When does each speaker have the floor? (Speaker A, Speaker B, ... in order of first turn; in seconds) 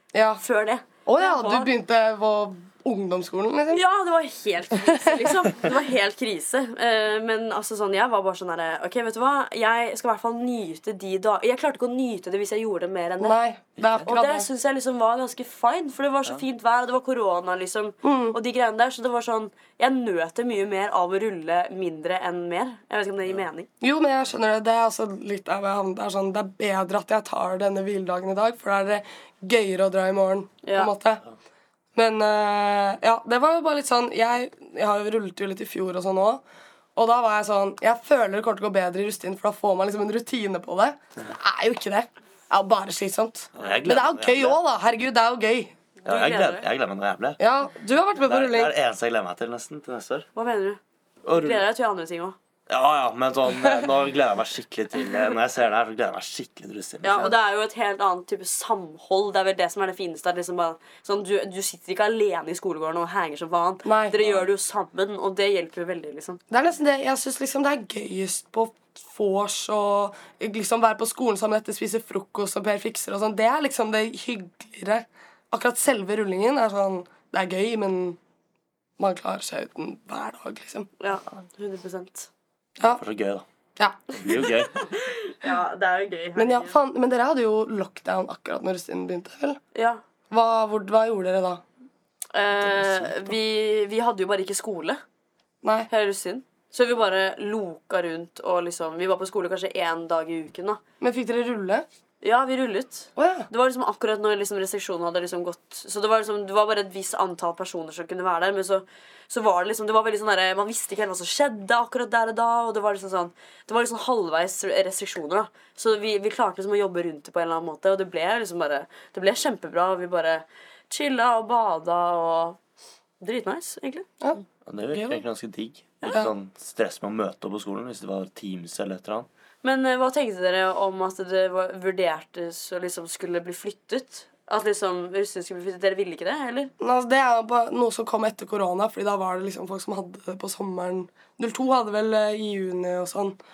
Speaker A: 0.1-0.4, 1.1-3.8, 4.8-5.3, 13.2-14.5, 18.0-18.4, 23.8-31.2, 31.9-36.4, 37.0-45.8, 47.4-48.7, 63.9-64.2, 66.5-78.2, 79.0-80.9, 83.8-84.5, 86.4-89.6, 90.3-91.6, 95.6-95.9, 101.0-101.9, 103.2-103.5, 124.9-125.2, 136.8-143.4
Speaker B: 0.4-1.7, 3.7-13.4, 14.0-23.7, 30.6-30.9, 46.0-46.7, 50.4-52.4, 57.0-66.4, 81.0-82.3, 84.7-86.8, 89.8-90.0, 92.3-95.0, 95.9-100.8, 102.2-122.6, 123.2-124.2, 129.6-136.7
Speaker C: 43.5-44.6, 46.0-47.4, 48.2-50.3, 51.2-51.6, 52.7-57.3, 64.2-64.5, 82.9-83.5, 84.2-84.9, 92.5-93.3, 124.7-129.3